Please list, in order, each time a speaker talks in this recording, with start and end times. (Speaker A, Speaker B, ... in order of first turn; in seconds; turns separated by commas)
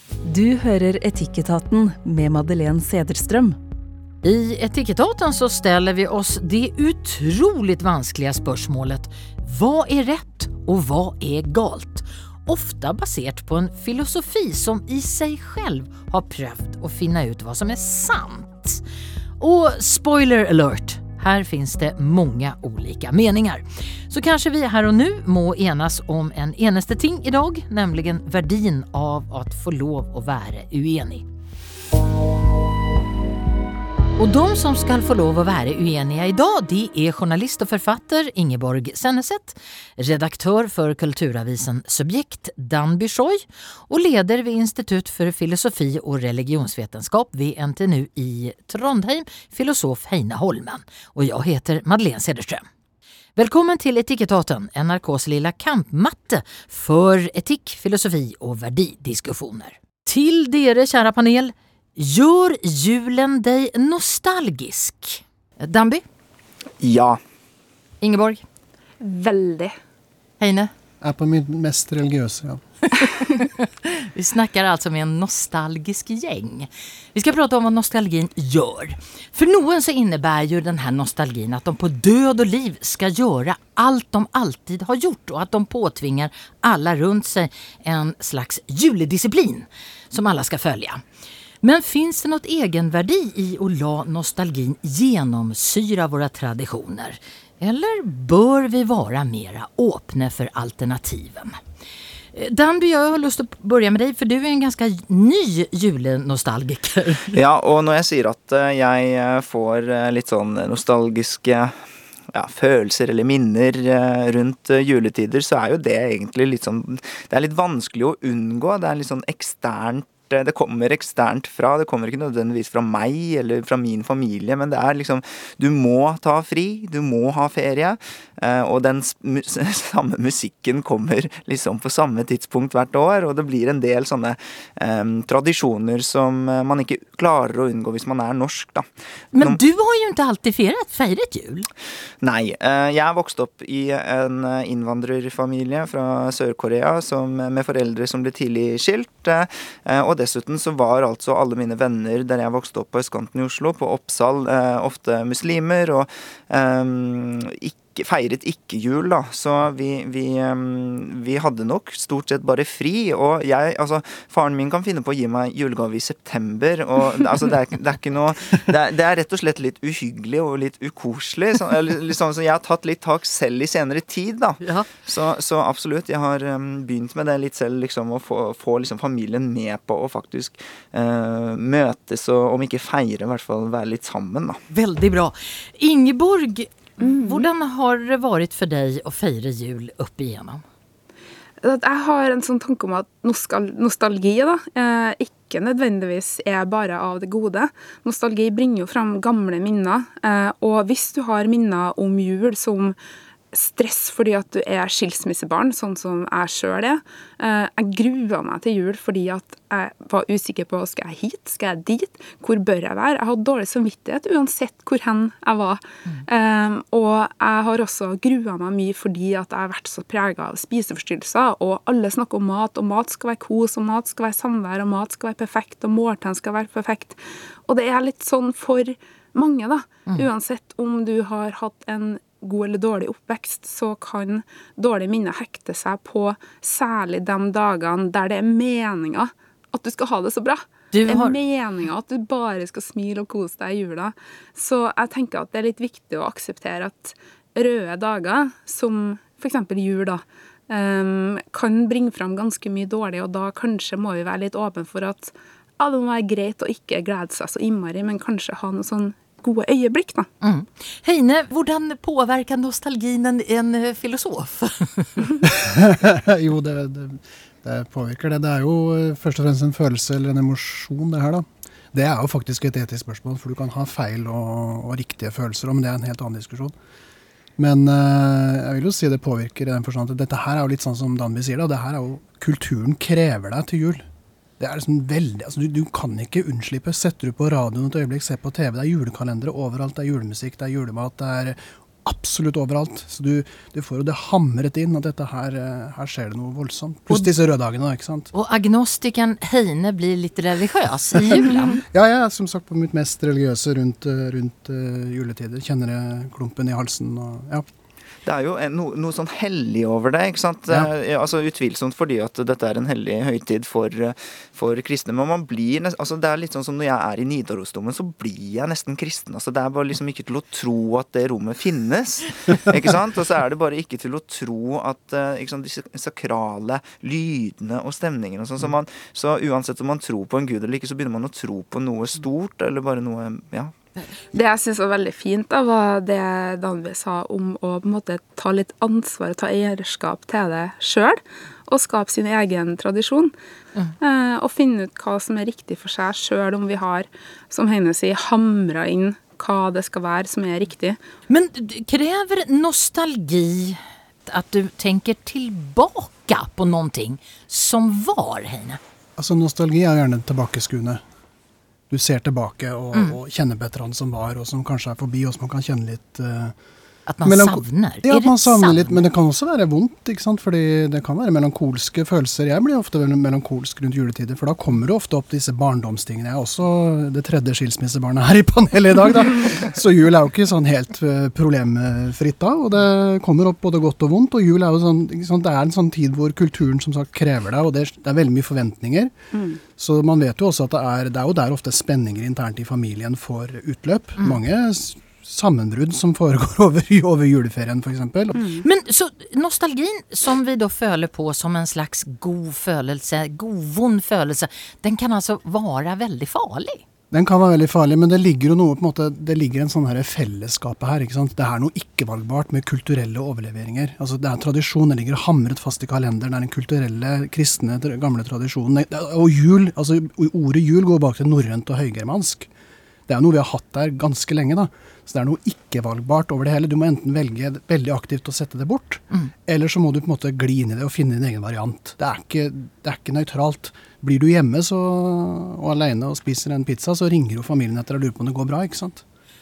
Speaker A: 0.2-3.6, Speaker B: 4.2-18.8, Speaker B: 19.4-31.2, Speaker B: 34.2-52.7, Speaker B: 53.4-66.0, Speaker C: 66.8-67.2, Speaker B: 68.0-68.4, Speaker D: 69.0-69.8, Speaker B: 70.4-70.7, Speaker E: 71.0-72.6, Speaker B: 72.9-91.0, Speaker B: 91.6-101.6, Speaker B: 102.3-107.4, Speaker C: 107.3-111.8, Speaker C: 112.3-138.8, Speaker B: 139.3-141.7, Speaker C: 142.2-184.6, Speaker B: 174.6-174.9, Speaker B: 184.7-190.6, Speaker D: 187.0-187.5, Speaker D: 191.6-203.0, Speaker D: 203.5-260.3, Speaker B: 240.9-241.4, Speaker B: 260.4-265.3, Speaker E: 265.4-276.8, Speaker E: 277.6-284.1, Speaker E: 284.6-298.3, Speaker B: 298.3-301.8, Speaker E: 301.9-307.7, Speaker C: 308.3-333.7, Speaker D: 334.3-343.3, Speaker D: 344.0-351.0, Speaker B: 351.3-358.8, Speaker E: 359.2-361.0, Speaker E: 361.9-366.6, Speaker B: 367.1-369.0, Speaker E: 367.2-389.1, Speaker D: 389.3-389.6, Speaker E: 389.7-398.4, Speaker D: 398.3-398.6, Speaker B: 398.6-406.8, Speaker E: 407.1-422.5, Speaker E: 423.1-439.0